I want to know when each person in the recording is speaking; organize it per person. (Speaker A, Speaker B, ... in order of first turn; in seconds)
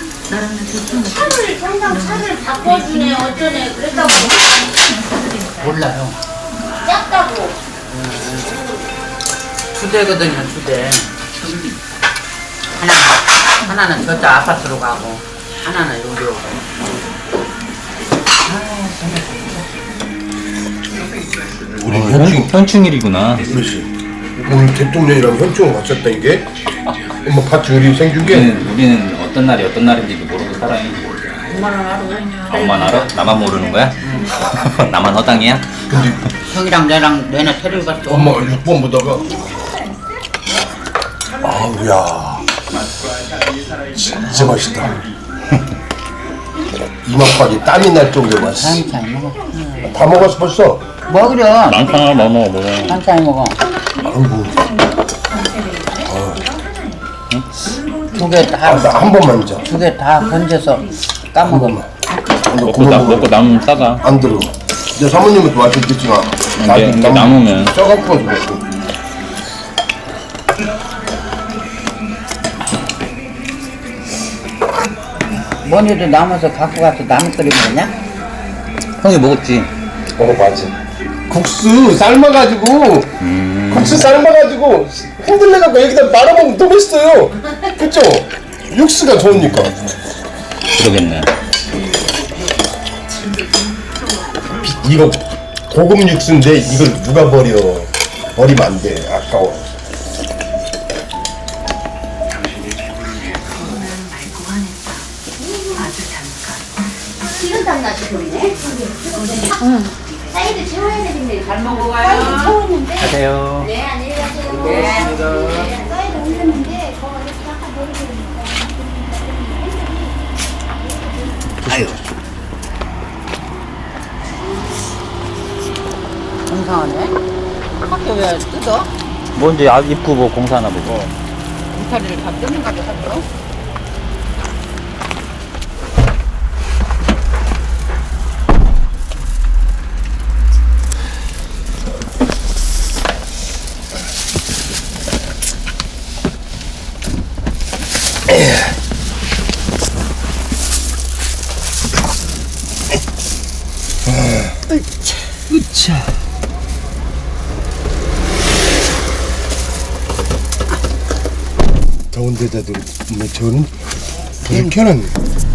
Speaker A: 0.9-4.7, 6.8-7.6, 105.4-106.0, 107.3-119.9
Speaker B: 5.6-6.2, 7.9-8.5, 9.7-11.5, 12.8-16.6, 18.4-19.7, 31.5-33.1, 34.0-34.3, 36.5-38.4, 44.3-45.0, 48.5-50.0, 51.1-52.0, 52.9-53.6, 58.1-61.8, 75.6-78.0, 111.4-112.6, 114.6-115.1, 126.5-127.2, 127.8-128.9, 131.7-133.3
Speaker C: 21.7-22.6, 23.4-26.5, 27.2-28.5, 35.9-36.2, 38.1-39.3, 41.4-42.6, 43.8-45.1, 47.0-48.9, 49.9-50.9, 54.0-54.7, 56.0-56.5, 58.5-59.6, 61.4-61.9, 62.5-63.4, 64.0-68.7, 80.2-80.7, 81.3-89.7, 94.5-99.7, 114.4-115.7, 154.0-154.7, 162.1-163.7, 164.4-165.1
Speaker D: 21.9-23.5, 28.2-31.1, 32.5-35.9, 51.7-53.0, 62.6-64.0, 66.6-67.8, 79.0-79.7, 83.2-84.1, 89.4-89.9, 90.7-91.3, 113.0-113.7, 121.6-122.0, 129.3-131.1, 155.5-156.1